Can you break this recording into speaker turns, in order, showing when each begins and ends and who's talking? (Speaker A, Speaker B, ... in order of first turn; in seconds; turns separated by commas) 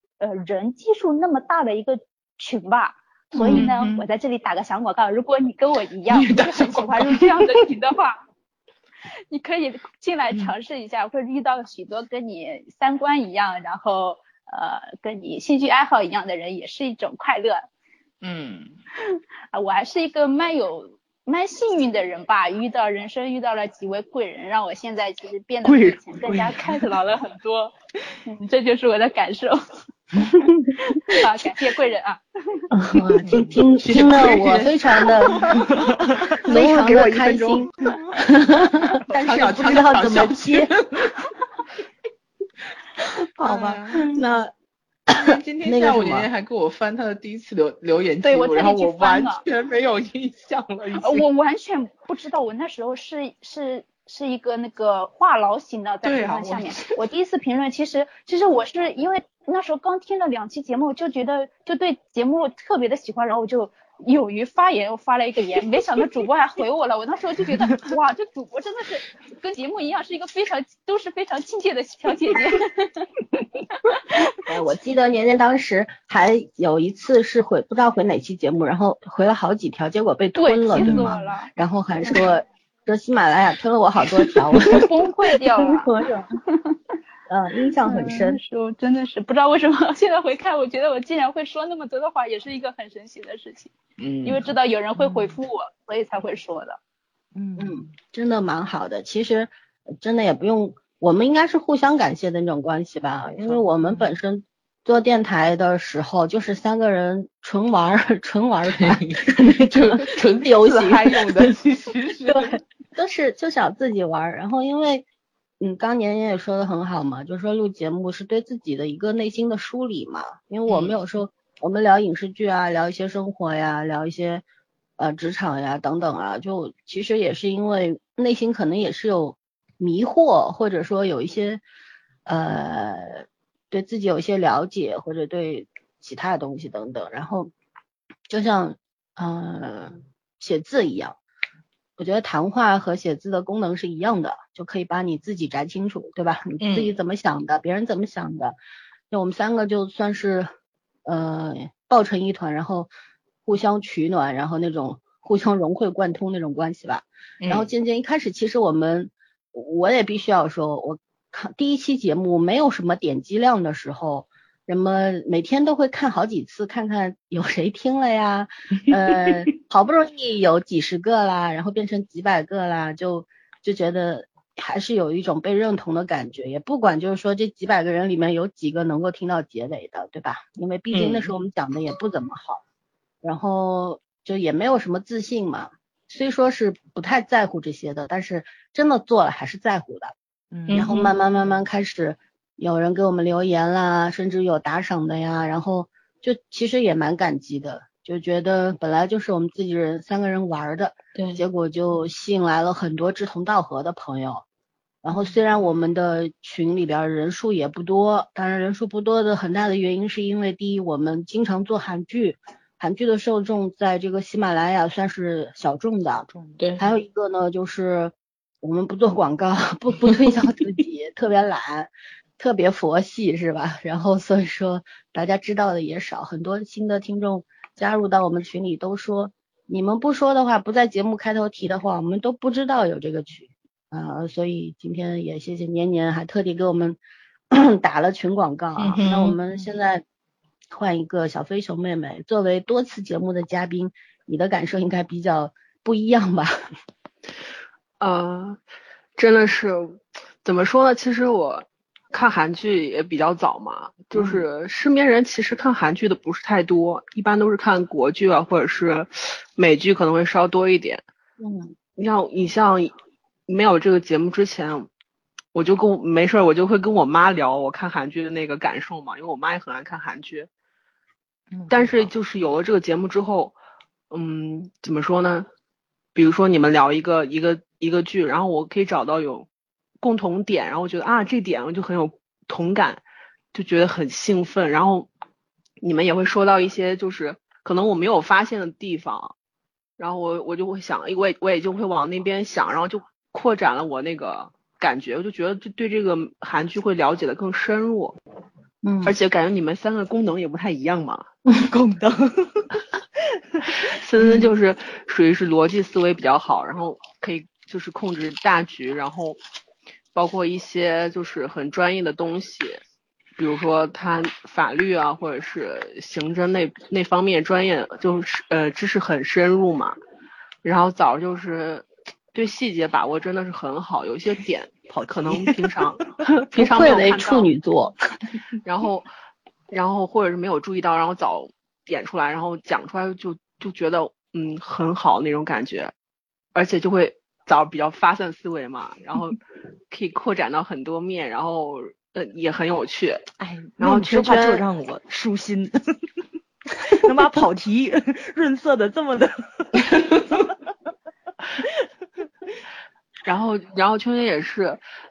Speaker A: 0.2-8.2, Speaker B: 3.4-3.7, Speaker C: 3.5-4.0, Speaker C: 6.1-7.5, Speaker A: 9.3-17.7, Speaker C: 18.2-18.8, Speaker A: 19.5-27.7, Speaker A: 28.2-29.6, Speaker A: 30.8-32.2, Speaker B: 32.7-35.7, Speaker C: 33.2-37.7, Speaker D: 35.8-36.3, Speaker B: 36.4-40.7, Speaker C: 39.1-41.2, Speaker B: 43.4-44.5, Speaker C: 43.4-44.1, Speaker B: 45.1-46.3, Speaker C: 45.1-51.2, Speaker A: 48.2-49.4, Speaker A: 51.0-73.1, Speaker C: 56.0-57.0, Speaker B: 74.5-84.9, Speaker A: 80.4-81.5, Speaker A: 84.7-85.9, Speaker B: 85.5-86.2, Speaker A: 86.5-86.8, Speaker B: 87.3-88.4, Speaker A: 87.8-93.7, Speaker C: 94.0-94.5, Speaker A: 94.2-96.8, Speaker D: 97.3-97.9, Speaker B: 97.6-111.5, Speaker D: 103.4-104.1, Speaker C: 108.8-112.6, Speaker B: 112.3-115.1, Speaker B: 115.6-124.4, Speaker C: 120.7-120.9, Speaker B: 125.0-131.6, Speaker B: 132.3-137.5, Speaker B: 138.3-141.2, Speaker B: 142.0-148.6, Speaker C: 146.6-146.9, Speaker B: 149.1-150.5, Speaker B: 151.1-152.9, Speaker B: 153.5-182.6, Speaker C: 157.4-157.7, Speaker C: 180.9-181.3, Speaker B: 183.2-190.2, Speaker D: 190.5-190.9, Speaker C: 190.7-191.1, Speaker B: 190.7-204.4, Speaker B: 205.0-216.3, Speaker D: 216.3-216.6, Speaker C: 216.6-216.9, Speaker B: 216.8-237.0, Speaker B: 237.5-240.0, Speaker C: 238.8-239.4, Speaker B: 240.7-246.6, Speaker E: 248.0-248.6, Speaker E: 249.2-261.0, Speaker B: 254.2-254.4, Speaker B: 261.4-261.7, Speaker E: 262.0-262.9, Speaker E: 263.5-264.9, Speaker E: 265.5-270.5, Speaker D: 271.5-272.1, Speaker E: 271.7-273.6, Speaker E: 274.1-275.5, Speaker E: 276.1-279.5, Speaker E: 280.0-283.0, Speaker E: 283.5-285.1, Speaker E: 285.8-289.3, Speaker E: 290.0-298.2, Speaker B: 298.8-299.1, Speaker E: 299.0-301.3, Speaker D: 301.5-302.7, Speaker E: 303.8-309.4, Speaker E: 310.1-312.8, Speaker E: 313.4-320.0, Speaker E: 320.6-327.5, Speaker D: 324.9-325.7, Speaker B: 326.5-328.0, Speaker E: 328.6-329.1, Speaker E: 329.7-335.9, Speaker E: 336.6-339.4, Speaker E: 339.9-343.3, Speaker D: 343.4-346.0, Speaker E: 343.8-344.6, Speaker D: 346.8-350.5, Speaker E: 353.2-354.8